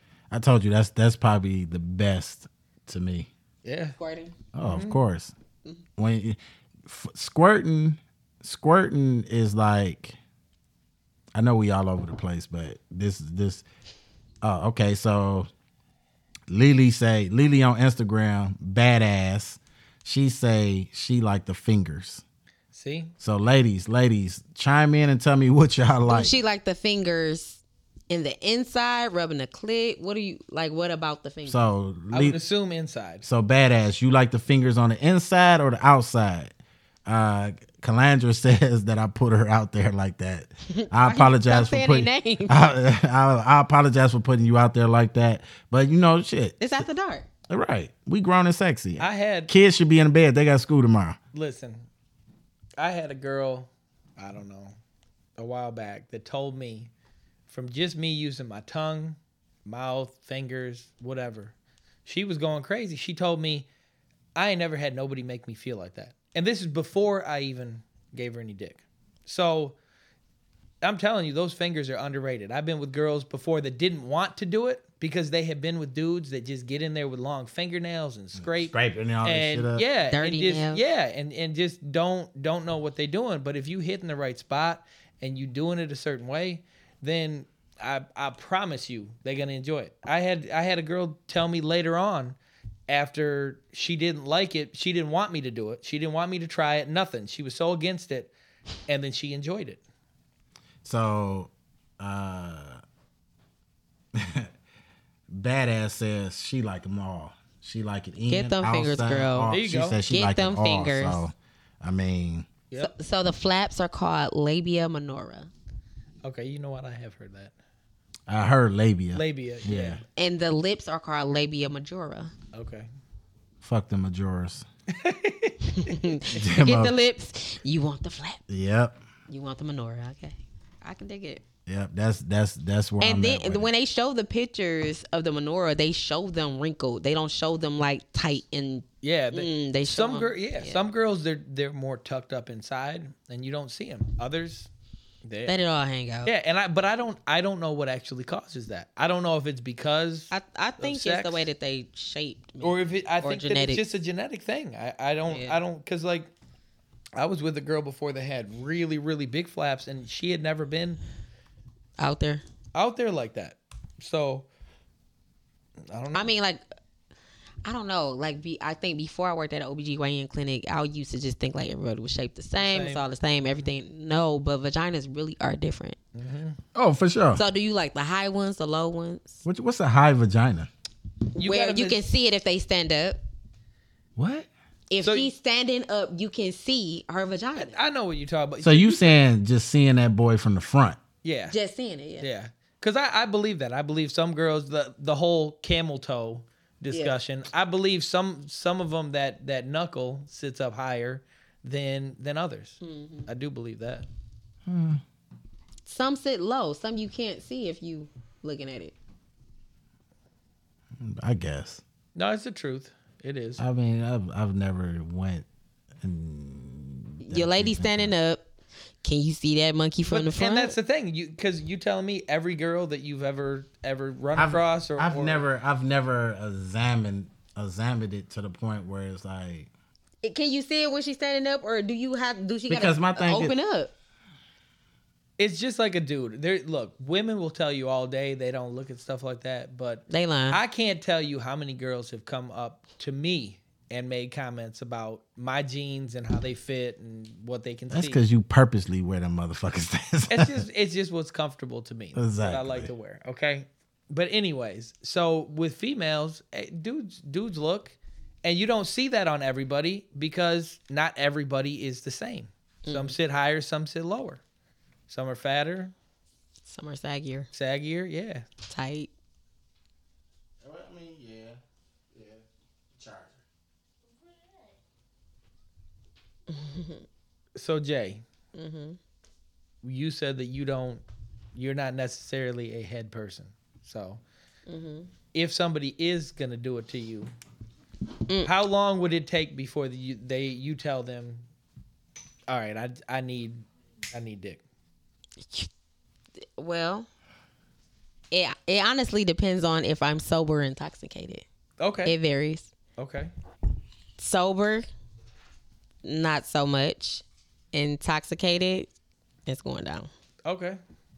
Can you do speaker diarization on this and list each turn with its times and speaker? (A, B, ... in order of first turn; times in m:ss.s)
0:00.3-0:03.3 A
0:03.6-0:04.0 B
0:04.0-0:04.3 C
0:04.5-0:05.3 A
0:04.6-0:05.0 B
0:06.0-0:10.2 A
0:11.3-0:13.6 A
0:14.4-0:15.5 A
0:16.5-0:22.2 A
0:22.7-0:23.1 B
0:23.2-0:26.3 A
0:26.1-0:31.7 C
0:31.5-0:32.4 A
0:32.1-0:33.2 B
0:33.2-0:36.5 A
0:37.1-0:46.8 A
0:40.7-0:42.6 C
0:46.6-0:47.3 C
0:47.5-0:51.2 A
0:49.0-0:49.5 B
0:51.3-0:51.8 B
0:52.8-0:54.7 B
0:55.4-0:56.9 B
0:57.5-1:01.5 B
1:02.1-1:03.7 B
1:04.4-1:09.8 B
1:10.8-1:32.4 B
1:18.4-1:19.8 A
1:20.1-1:20.8 C
1:32.9-1:38.3 B
1:38.9-1:39.8 B
1:40.8-1:42.8 A
1:44.1-1:44.5 A
1:45.3-1:52.5 A
1:48.3-1:49.5 C
1:49.5-1:50.0 B
1:50.1-1:51.2 C
1:52.8-1:55.5 C
1:56.2-1:57.5 B
1:58.3-2:00.0 A
1:59.1-2:00.0 B
2:00.2-2:02.3 C
2:02.5-2:02.9 B
2:03.6-2:04.6 A
2:04.9-2:06.1 B
2:05.8-2:08.4 C
2:06.3-2:06.9 A
2:08.5-2:09.0 A
2:09.3-2:11.4 C
2:11.7-2:13.7 A
2:13.0-2:20.8 C
2:19.0-2:24.7 B
2:25.2-2:25.6 B
2:25.5-2:26.3 C
2:26.2-2:31.5 B
2:30.3-2:33.9 C
2:32.6-2:36.3 B
2:35.3-2:35.6 C
2:37.2-2:41.0 B
2:42.0-2:42.4 C
2:42.8-2:44.5 B
2:45.9-2:46.3 B
2:46.1-2:46.6 C
2:47.6-2:56.0 C
2:52.6-2:53.0 B
2:56.2-2:56.6 B
2:56.8-2:57.4 A
2:57.4-2:59.4 C
2:59.4-3:00.7 A
3:01.4-3:02.0 B
3:01.4-3:03.2 C
3:04.2-3:04.5 A
3:04.9-3:07.8 C
3:05.0-3:05.3 B
3:07.6-3:09.2 B
3:08.6-3:11.0 A
3:11.2-3:11.6 B
3:11.5-3:12.3 C
3:12.2-3:24.1 B
3:22.8-3:23.3 C
3:24.7-3:25.0 A
3:25.9-3:28.9 C
3:31.0-3:31.8 A
3:32.2-3:33.6 B
3:33.6-3:35.4 A
3:36.0-3:38.1 A
3:37.2-3:38.4 C
3:39.0-3:40.8 C
3:40.1-3:45.4 B
3:44.4-3:49.7 A
3:50.2-3:53.9 C
3:52.7-3:53.5 A
3:55.4-4:08.2 B
4:00.1-4:00.6 C
4:07.9-4:10.6 A
4:10.3-4:24.4 B
4:12.2-4:12.9 A
4:22.9-4:23.2 C
4:25.1-4:25.9 B
4:26.7-4:27.5 C
4:27.5-4:28.4 B
4:28.7-4:29.1 C
4:30.6-4:31.6 A
4:32.1-4:32.4 A
4:33.0-4:33.4 A
4:36.5-4:37.0 C
4:37.6-4:38.2 B
4:38.6-4:39.0 C
4:39.8-4:41.0 B
4:41.6-4:44.2 B
4:44.7-4:45.1 C
4:45.3-4:47.3 B
4:48.4-4:51.4 B
4:52.5-4:54.6 B
4:55.4-4:55.7 C
4:56.6-4:57.1 C
4:58.3-5:01.4 C
5:01.8-5:02.2 B
5:02.0-5:02.7 C
5:03.0-5:03.3 B
5:04.2-5:04.9 C
5:06.0-5:08.9 C
5:09.5-5:10.1 C
5:10.4-5:10.8 B